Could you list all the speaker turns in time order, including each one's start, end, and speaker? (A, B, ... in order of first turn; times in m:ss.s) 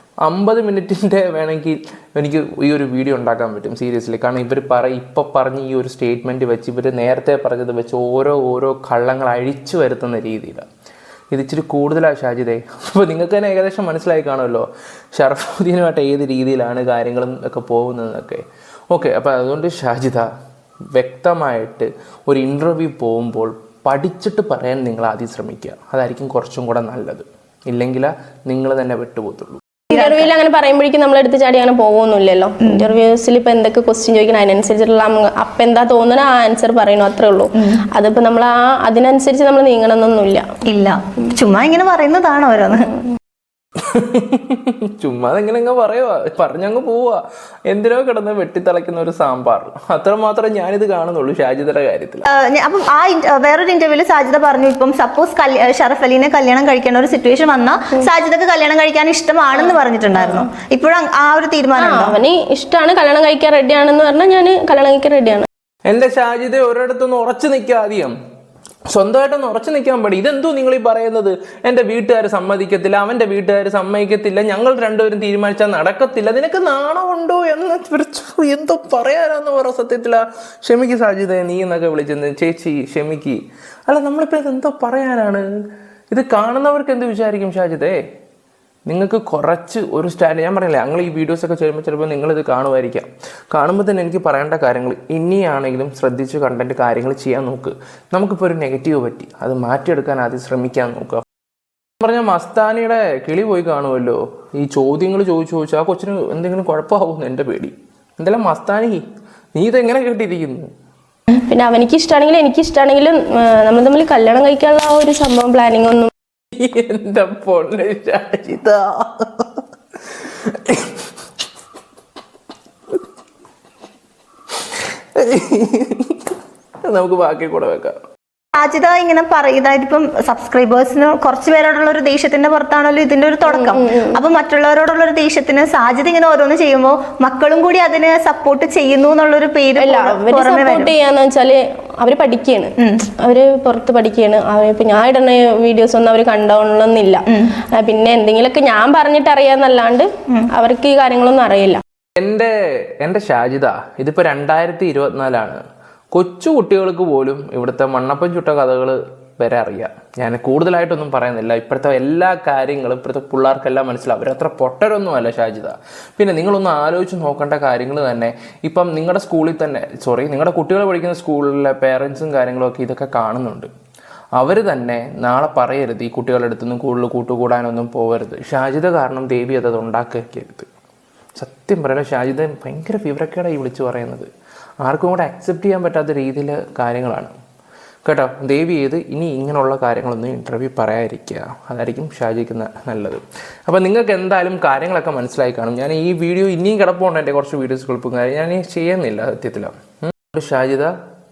0:00.2-0:10.7 A
0:11.3-0:20.3 A
0:20.9-0:29.7 A
0:29.9-0:40.4 B
0:29.9-0:30.2 C
0:32.6-0:32.9 C
0:40.7-0:42.9 C
0:43.8-0:52.3 A
0:52.3-1:02.2 C
0:59.6-1:00.5 B
1:01.8-1:05.5 B
1:05.9-1:08.1 A
1:08.9-1:25.5 A
1:26.1-1:28.0 A
1:28.9-1:41.2 A
1:42.0-1:49.0 A
1:49.6-1:50.6 A
1:51.3-1:56.1 B
1:56.5-1:59.6 A
2:00.1-2:01.1 A
2:04.8-2:08.0 A
2:08.5-2:20.9 C
2:13.5-2:14.2 B
2:19.8-2:31.8 B
2:22.8-2:23.0 C
2:32.2-2:53.7 A
2:54.4-3:00.7 A
3:01.4-3:04.3 A
3:04.8-3:07.3 A
3:08.1-3:20.9 A